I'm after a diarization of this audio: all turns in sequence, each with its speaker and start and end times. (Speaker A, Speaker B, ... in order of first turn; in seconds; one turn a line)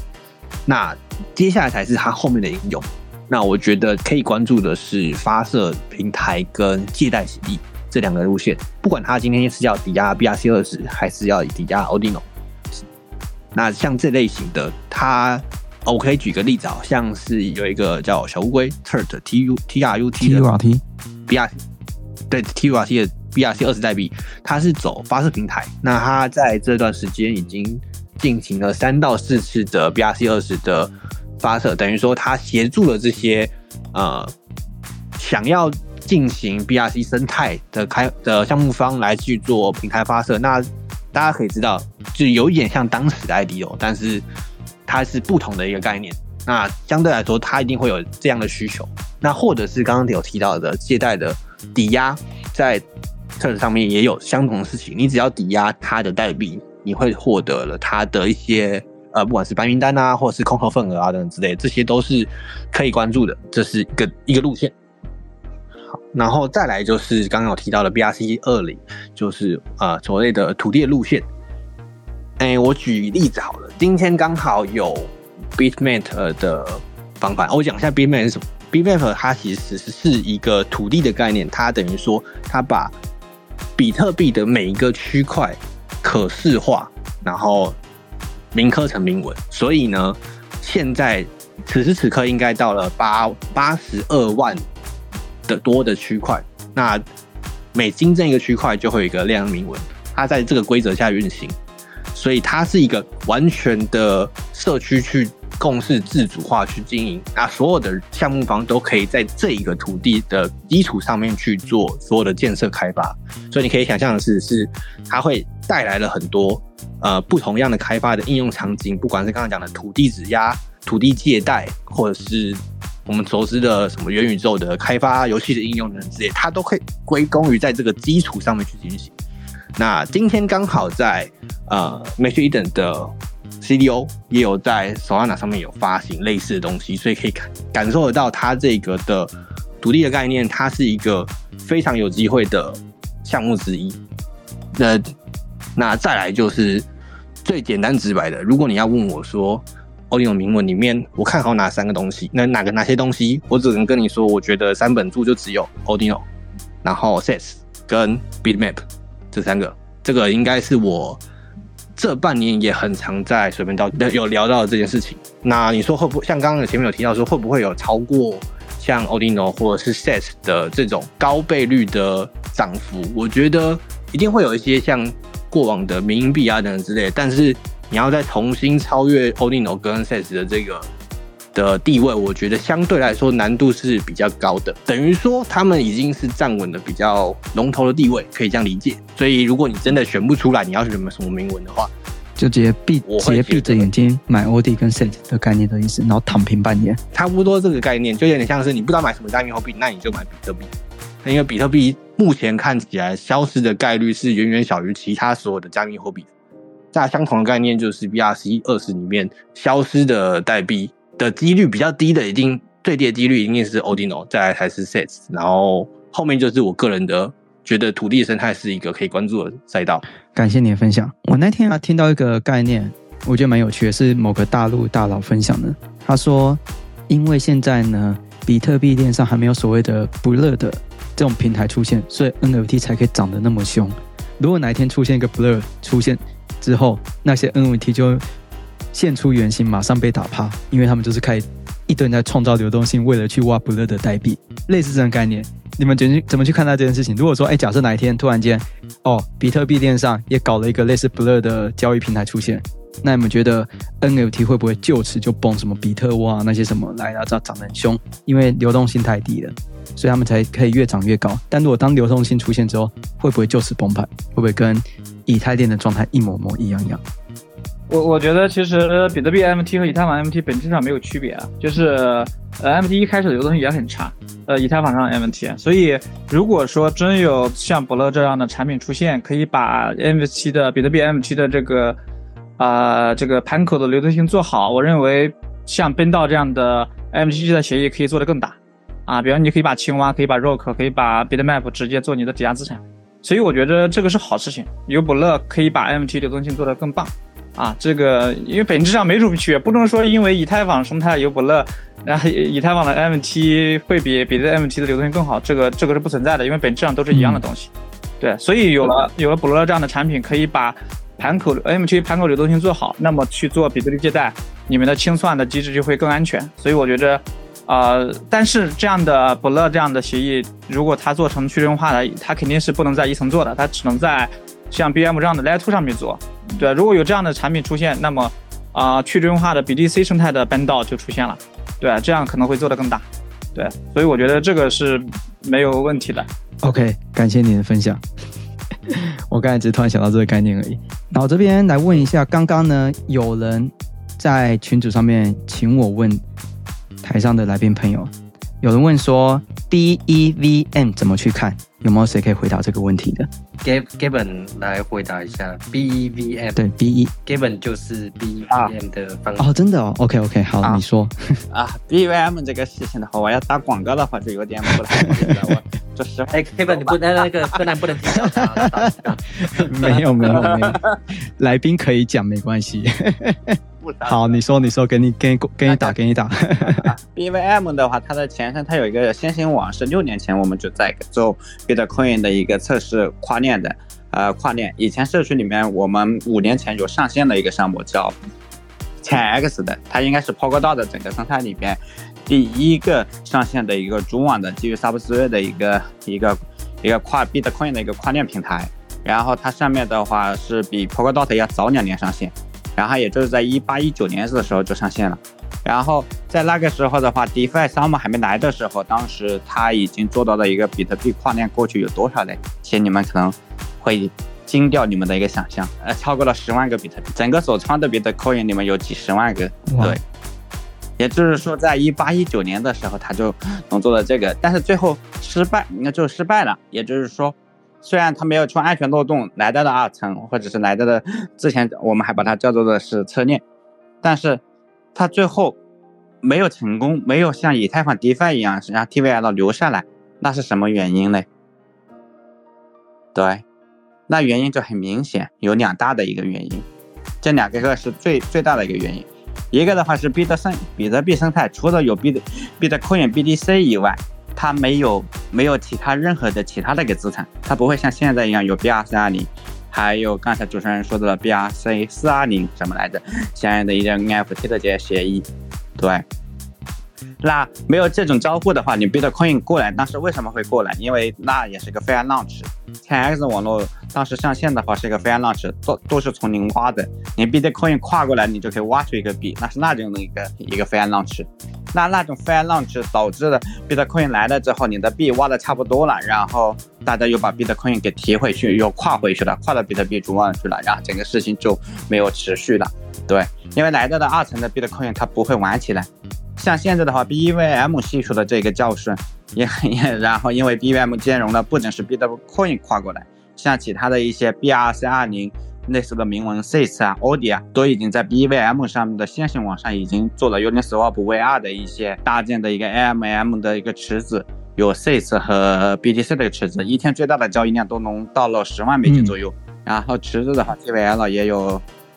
Speaker A: 0.7-12.2
Speaker A: 13.5-20.5
Speaker B: 20.2-20.8
Speaker A: 21.3-21.5
Speaker A: 22.3-34.3
Speaker A: 35.2-44.2
Speaker A: 44.9-52.8
Speaker A: 53.4-64.7
Speaker A: 65.9-71.2
Speaker A: 72.4-82.9
Speaker A: 83.8-87.8
Speaker A: 88.5-94.6
Speaker A: 95.5-97.0
Speaker A: 97.7-101.6
Speaker A: 102.1-129.1
Speaker A: 129.8-144.0
Speaker A: 144.7-145.1
Speaker A: 145.8-146.8
Speaker A: 147.4-156.2
Speaker A: 156.8-161.2
Speaker A: 161.9-180.9
Speaker A: 181.5-191.9
Speaker B: 192.4-197.0
Speaker A: 193.1-193.9
Speaker A: 197.1-200.7
Speaker A: 201.2-206.3
Speaker A: 206.9-220.0
Speaker B: 220.3-238.2
Speaker B: 238.9-267.0
Speaker C: 267.9-282.0
Speaker C: 282.6-307.7
Speaker B: 307.1-307.4
Speaker C: 308.2-336.3
Speaker B: 336.6-338.0
Speaker B: 338.9-346.2
Speaker B: 347.0-348.1
Speaker B: 348.6-353.3
Speaker D: 353.6-356.6
Speaker B: 356.6-357.1
Speaker D: 357.2-359.5
Speaker B: 359.4-361.4
Speaker E: 361.5-367.6
Speaker D: 366.3-370.6
Speaker B: 368.4-368.9
Speaker B: 369.6-370.8
Speaker E: 370.5-370.9
Speaker B: 371.4-376.9
Speaker E: 373.8-374.4
Speaker E: 375.6-375.9
Speaker E: 376.6-388.1
Speaker E: 389.0-420.0
Speaker B: 419.7-420.0
Speaker E: 421.0-433.4
Speaker E: 434.0-434.4
Speaker E: 434.9-435.6
Speaker E: 436.2-441.2
Speaker E: 443.1-443.4
Speaker E: 444.1-446.6
Speaker E: 447.2-465.3
Speaker E: 465.8-466.0
Speaker E: 467.2-521.6
Speaker B: 518.8-519.1